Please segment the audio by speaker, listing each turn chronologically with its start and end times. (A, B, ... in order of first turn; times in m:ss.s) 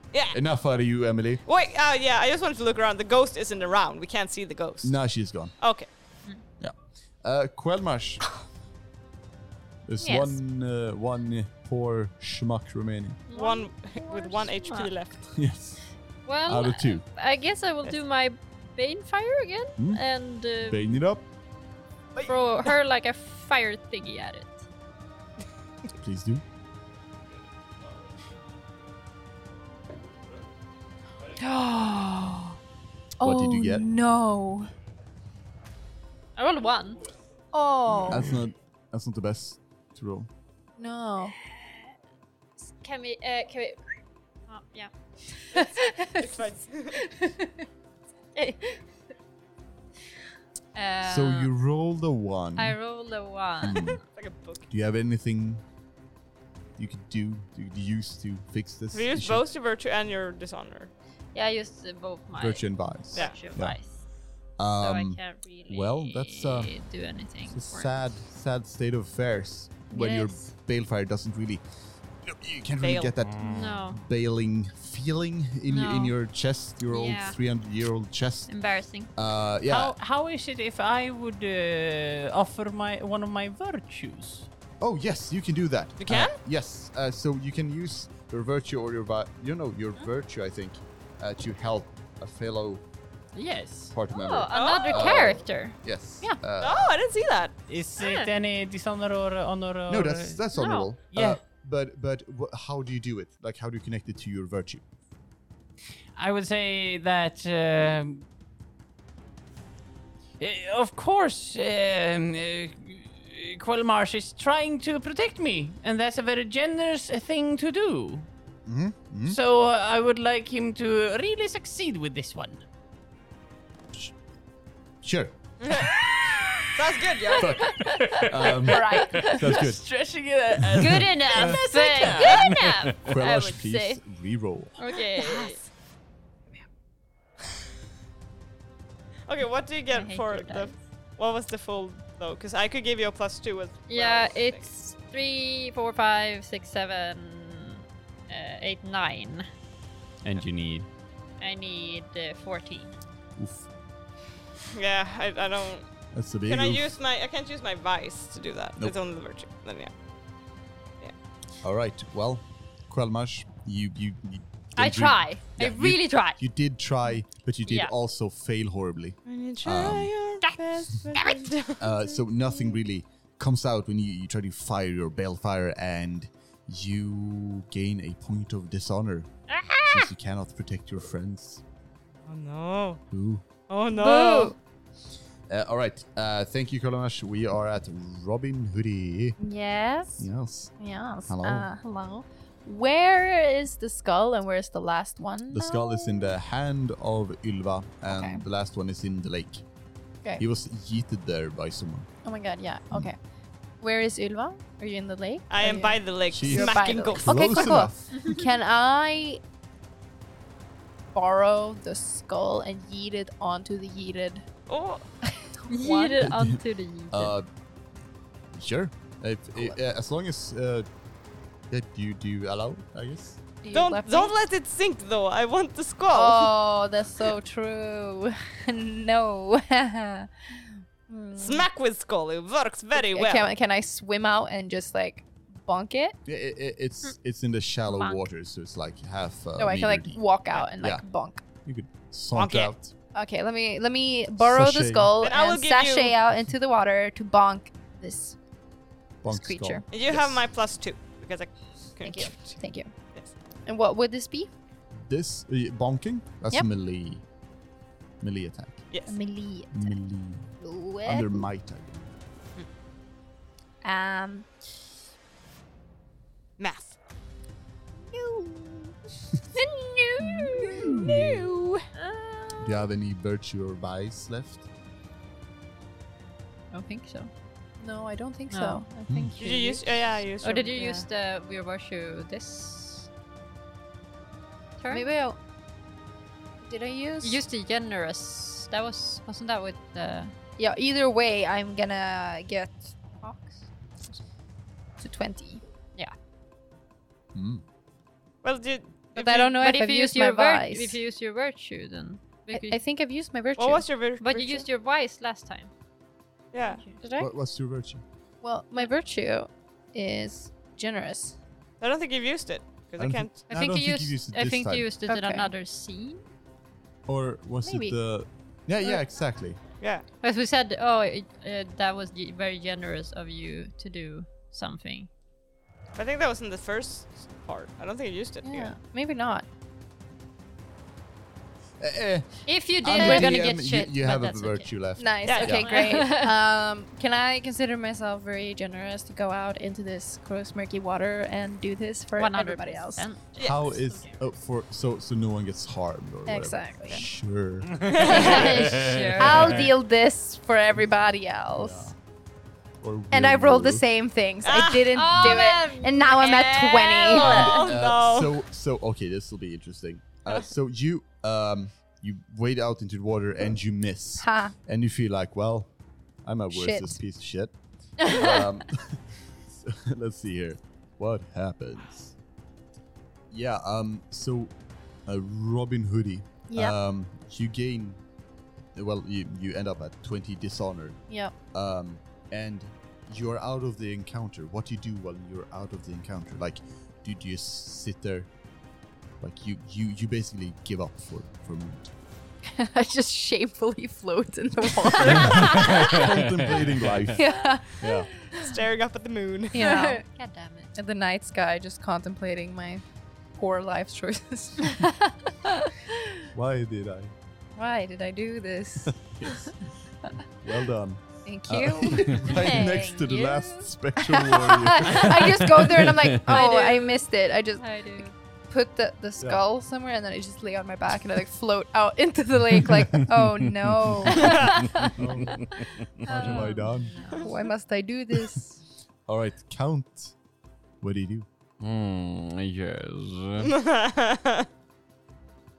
0:00.3-0:01.4 A
0:01.4-0:05.0 B
0:04.8-0:05.5 A
0:05.6-0:05.9 B
0:06.6-0:08.2 A
0:09.8-0:13.2 A
0:10.0-0:10.4 C
0:13.3-0:14.9 C
0:13.3-0:15.2 B
0:15.3-0:15.8 A
0:16.2-0:21.0 C
0:16.4-0:17.0 A
0:19.8-0:20.0 A
0:20.6-0:21.2 A
0:22.1-0:22.7 B
0:22.2-0:24.6 C
0:26.0-0:26.4 A
0:31.4-0:32.6 D
0:33.2-0:34.7 D
0:33.2-0:33.9 A
0:36.4-0:37.0 C
0:37.5-0:38.3 D
0:38.0-0:40.3 A
0:40.8-0:41.3 D
0:41.5-0:41.8 C
0:42.6-0:43.8 C
0:44.5-0:46.3 C
0:46.1-0:47.0 B
0:47.0-0:47.4 C
0:48.3-0:48.8 C
0:50.7-0:51.5 C
0:51.0-0:52.8 A
0:52.6-0:54.0 C
0:53.6-0:54.0 A
0:53.7-0:54.6 B
0:54.7-0:55.6 A
0:56.8-0:59.4 A
0:58.9-1:00.9 B
1:01.3-1:04.0 C
1:02.3-1:03.8 A
1:03.1-1:03.4 B
1:04.6-1:06.7 A
1:04.8-1:07.9 C
1:07.5-1:11.6 A
1:09.9-1:10.5 C
1:12.2-1:18.5 A
1:12.8-1:13.1 B
1:13.2-1:13.8 E
1:13.4-1:14.0 C
1:15.7-1:16.1 C
1:16.9-1:17.4 C
1:18.5-1:19.1 C
1:19.1-1:20.0 A
1:19.7-1:24.5 E
1:24.8-1:32.8 A
1:26.0-1:26.4 B
1:33.3-1:33.9 E
1:33.9-1:36.9 A
1:34.1-1:35.8 C
1:34.5-1:35.2 B
1:36.6-1:37.5 B
1:37.7-1:40.5 E
1:38.0-1:38.3 C
1:39.9-1:44.8 A
1:40.5-1:40.9 C
1:41.1-1:41.4 E
1:46.2-1:48.2 E
1:50.4-1:58.3 E
1:58.6-1:59.4 A
1:59.3-2:02.6 E
2:05.0-2:05.3 A
2:05.6-2:06.0 B
2:05.7-2:13.1 E
2:06.7-2:07.6 B
2:07.4-2:09.8 A
2:07.4-2:08.0 C
2:08.6-2:09.3 D
2:10.7-2:14.0 C
2:10.8-2:11.6 A
2:13.0-2:14.8 A
2:14.8-2:15.6 C
2:15.1-2:15.6 B
2:19.3-2:24.7 B
2:19.9-2:20.8 C
2:23.9-2:29.5 C
2:30.2-2:30.9 E
2:31.4-2:32.9 C
2:33.4-2:33.7 A
2:34.7-2:35.9 B
2:36.1-2:36.9 A
2:36.5-2:39.9 B
2:41.6-2:50.1 A
2:44.8-2:46.4 C
2:47.6-2:47.9 C
2:49.2-2:52.2 B
2:51.1-2:51.5 C
2:51.8-3:01.6 A
2:59.5-3:00.1 C
3:02.3-3:03.0 B
3:03.1-3:03.4 A
3:03.7-3:04.5 B
3:04.0-3:04.5 D
3:04.0-3:04.5 C
3:05.5-3:09.4 A
3:09.4-3:10.3 D
3:10.2-3:10.7 A
3:10.8-3:16.4 D
3:11.3-3:11.7 A
3:15.5-3:19.6 A
3:18.1-3:18.4 D
3:20.4-3:22.1 A
3:22.2-3:23.2 D
3:23.8-3:29.4 D
3:25.5-3:27.7 B
3:26.3-3:28.1 A
3:28.2-3:28.4 C
3:31.1-3:34.4 D
3:34.7-3:35.0 B
3:35.4-3:36.3 D
3:35.7-3:37.3 C
3:36.2-3:37.5 A
3:38.5-3:40.9 A
3:41.7-3:43.4 A
3:43.6-3:44.3 D
3:43.7-3:46.5 B
3:46.1-3:51.7 D
3:51.4-3:53.5 B
3:52.9-3:56.2 D
3:56.2-4:00.2 A
3:57.9-3:58.2 C
3:59.6-4:01.4 D
4:01.6-4:02.9 A
4:02.3-4:02.7 B
4:03.1-4:08.4 D
4:04.4-4:05.2 A
4:05.2-4:06.2 B
4:09.2-4:10.5 A
4:09.3-4:09.8 D
4:09.9-4:12.6 B
4:12.0-4:12.9 D
4:13.6-4:14.5 D
4:15.0-4:17.2 A
4:18.2-4:18.8 A
4:18.9-4:19.2 B
4:19.0-4:20.0 D
4:19.7-4:22.1 A
4:20.6-4:21.5 D
4:23.8-4:24.5 D
4:26.6-4:27.0 B
4:28.1-4:28.9 D
4:29.6-4:30.9 C
4:30.2-4:31.3 D
4:30.6-4:31.4 A
4:30.9-4:31.8 B
4:32.0-4:32.8 C
4:32.6-4:34.6 A
4:36.7-4:37.3 C
4:37.8-4:39.8 D
4:38.5-4:38.8 C
4:39.1-4:39.4 A
4:39.4-4:41.0 B
4:40.4-4:43.1 C
4:44.8-4:45.0 C
4:44.9-4:45.4 D
4:46.6-4:47.4 D
4:47.2-4:50.3 C
4:50.6-4:53.6 D
4:55.0-4:55.6 D
4:57.3-4:57.6 A
4:58.4-4:59.5 B
4:59.1-5:01.0 D
4:59.5-5:02.8 C
5:02.5-5:04.6 D
5:03.6-5:04.5 B
5:04.2-5:05.7 C
5:06.5-5:06.8 B
5:06.6-5:06.9 C
5:07.0-5:07.3 D
5:07.2-5:08.0 A
5:08.4-5:11.4 D
5:11.8-5:13.4 B
5:13.0-5:14.9 A
5:13.5-5:16.2 C
5:15.1-5:15.5 D
5:17.1-5:19.6 A
5:17.6-5:18.0 D
5:20.2-5:25.1 C
5:26.0-5:28.7 B
5:28.4-5:29.4 D
5:31.8-5:35.8 A
5:32.5-5:34.7 C
5:32.9-5:33.4 D
5:35.0-5:43.1 D
5:35.2-5:35.6 B
5:35.3-5:36.3 C
5:42.2-5:44.3 C
5:43.4-5:47.8 A
5:46.3-5:47.0 D
5:47.7-5:49.7 E
5:47.9-5:48.6 B
5:48.0-5:49.5 C
5:48.0-5:51.9 D
5:51.5-5:51.9 A
5:52.8-5:53.8 A
5:53.1-5:57.7 D
5:54.4-5:55.5 B
5:54.9-5:57.7 C
5:57.1-5:58.4 B
5:57.2-6:05.7 A
6:04.2-6:04.5 D
6:06.2-6:12.1 A
6:06.5-6:07.0 D
6:08.0-6:08.4 C
6:13.3-6:14.5 A
6:15.0-6:18.0 A
6:16.5-6:16.8 D
6:18.7-6:21.0 A
6:21.1-6:21.3 D
6:21.5-6:28.3 A
6:29.2-6:31.9 A
6:32.4-6:35.9 D
6:35.0-6:35.7 B
6:35.0-6:38.1 A
6:35.5-6:37.1 E
6:37.1-6:38.5 D
6:38.3-6:39.6 B
6:39.5-6:40.0 D
6:39.5-6:40.7 C
6:40.7-6:42.8 D
6:43.4-6:44.9 D
6:44.8-6:45.1 C
6:46.3-6:47.1 A
6:47.6-6:49.4 D
6:49.1-6:49.5 A
6:50.4-6:55.6 A
6:51.2-6:52.9 D
6:52.2-6:53.7 C
6:54.0-6:57.9 D
6:55.7-6:56.2 E
6:56.2-6:58.1 C
6:58.5-7:04.9 D
7:04.1-7:04.5 B
7:04.2-7:04.5 C
7:04.8-7:05.3 E
7:05.0-7:05.4 A
7:06.0-7:07.0 A
7:06.0-7:07.3 C
7:07.2-7:08.6 D
7:09.1-7:10.1 A
7:10.8-7:11.2 A
7:11.6-7:13.5 E
7:13.4-7:14.5 B